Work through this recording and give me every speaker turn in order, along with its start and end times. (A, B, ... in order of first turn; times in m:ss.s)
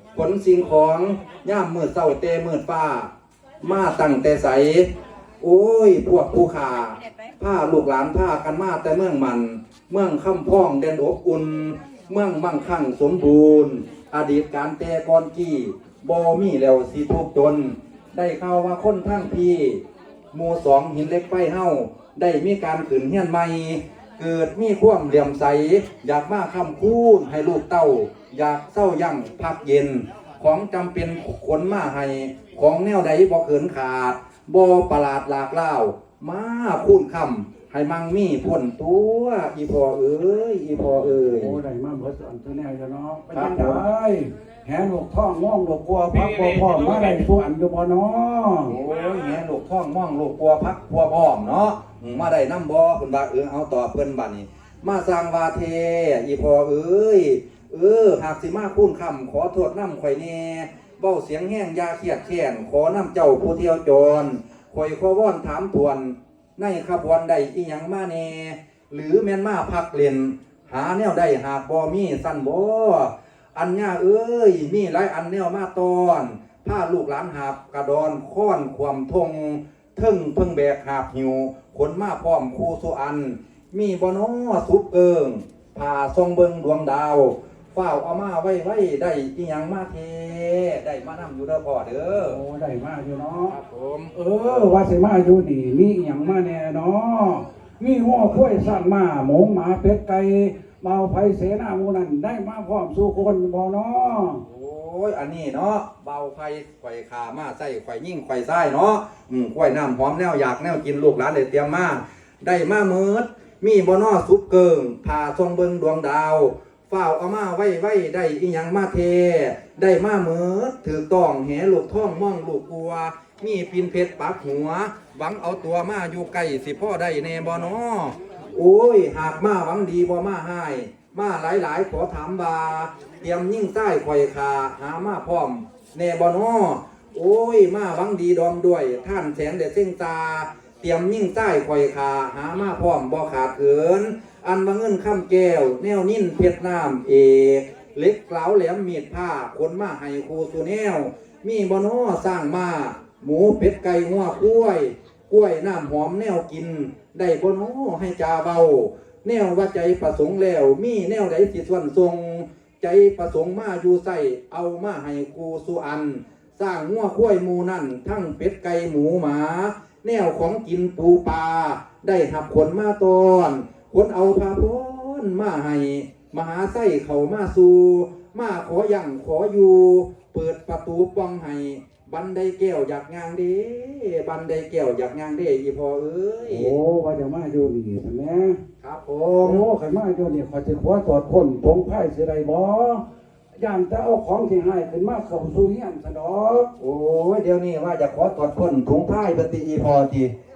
0:00.1-0:41.6 A
0:41.2-0:48.8 B
0:43.3-0:43.8 A
0:48.6-1:32.4 A
1:32.1-1:33.6 B
1:33.5-1:34.1 A
1:34.1-1:44.4 B
1:44.4-3:06.7 A
3:06.4-3:08.6 B
3:08.8-3:09.6 A
3:09.4-3:13.0 B
3:13.6-3:16.7 B
3:16.8-3:20.3 A